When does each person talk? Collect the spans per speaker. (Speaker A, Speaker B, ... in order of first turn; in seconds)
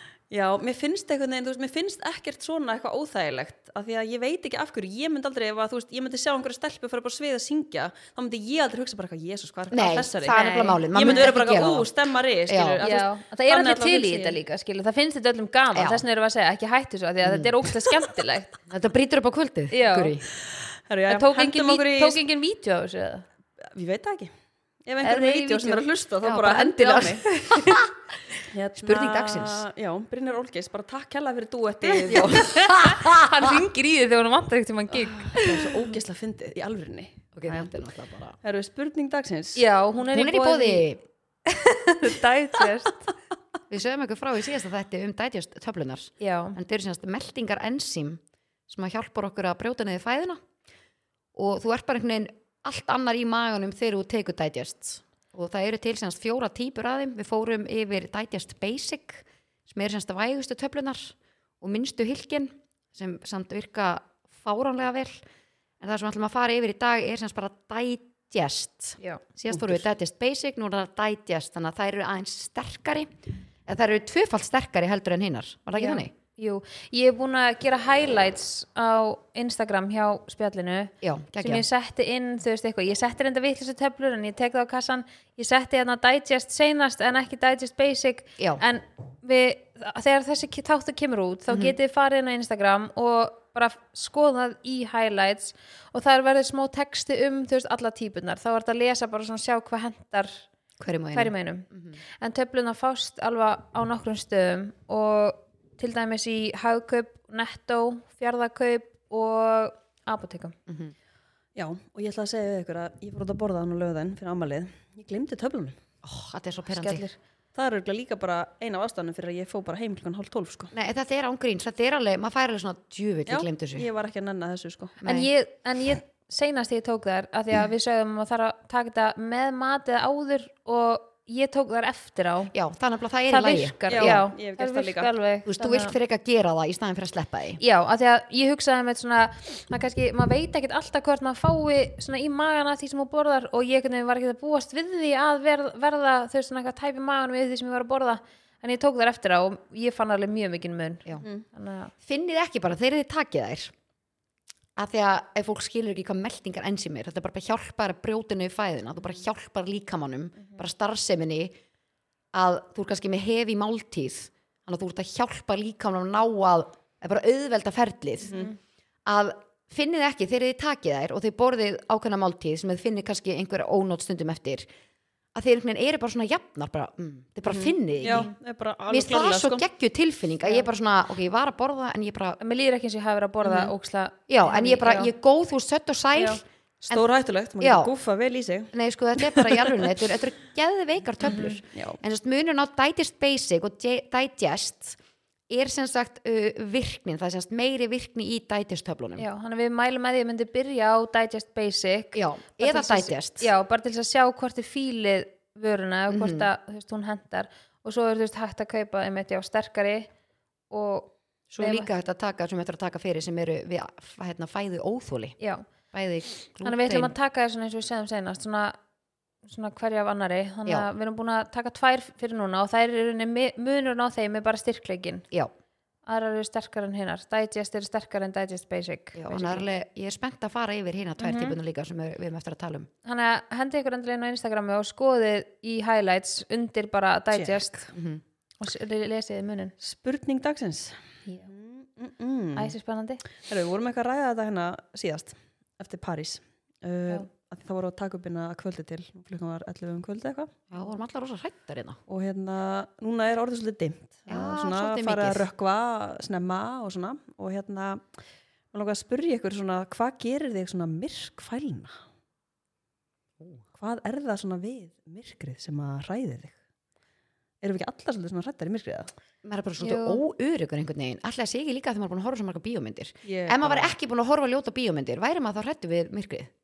Speaker A: 0.3-10.4, 10.9-14.4, 20.4-22.2, 23.6-24.3, 24.8-27.3, 28.5-32.7, 35.2-37.7, 38.4-39.6, 69.5-69.8, 111.5-115.8, 117.5-120.7, 123.3-125.0, 133.9-135.1, 177.4-179.6, 186.8-189.8, 237.3-237.8, 239.8-242.8, 243.4-250.5, 252.1-258.1, 258.7-262.0, 263.8-266.5, 267.6-269.1, 273.2-273.9
Speaker B: 9.7-11.9, 12.5-12.8, 15.7-16.0, 17.2-17.5, 18.7-20.2, 26.2-27.9, 28.8-29.6, 32.1-33.5, 37.4-38.4, 40.0-41.0, 43.7-50.4, 51.3-65.2, 65.8-73.1, 73.7-76.1, 81.0-81.7, 88.4-88.6, 91.5-91.7, 100.8-102.0, 110.7-110.9, 116.0-117.0, 120.7-123.9, 125.0-125.3, 132.5-134.2, 135.4-137.6, 152.0-153.7, 154.8-161.6, 162.3-168.3, 169.1-174.7, 175.3-178.3, 178.9-182.4, 184.3-187.0, 187.6-187.9, 188.7-195.0, 195.5-199.2, 202.1-203.5, 206.1-206.5, 211.5-215.4, 215.9-217.1, 229.1-232.9, 237.9-238.2, 250.7-252.0, 254.3-255.4, 269.4-276.5
Speaker C: 10.2-11.3, 12.8-18.5, 19.7-20.1, 21.1-23.2, 25.0-25.8, 27.3-27.8, 31.9-35.8, 39.5-40.9, 41.5-43.1, 46.2-46.6, 75.8-100.4, 101.1-101.7, 102.2-110.5, 116.7-117.2, 125.0-132.5, 133.3-135.9, 137.6-151.9, 168.2-168.5, 182.4-185.1, 186.2-186.4, 191.3-191.6, 199.2-210.1, 210.7-211.9, 215.4-215.7, 216.6-218.8, 219.4-225.2, 226.1-229.7, 231.2-231.6, 233.0-237.9, 238.6-239.7, 242.5-243.2, 269.8-270.2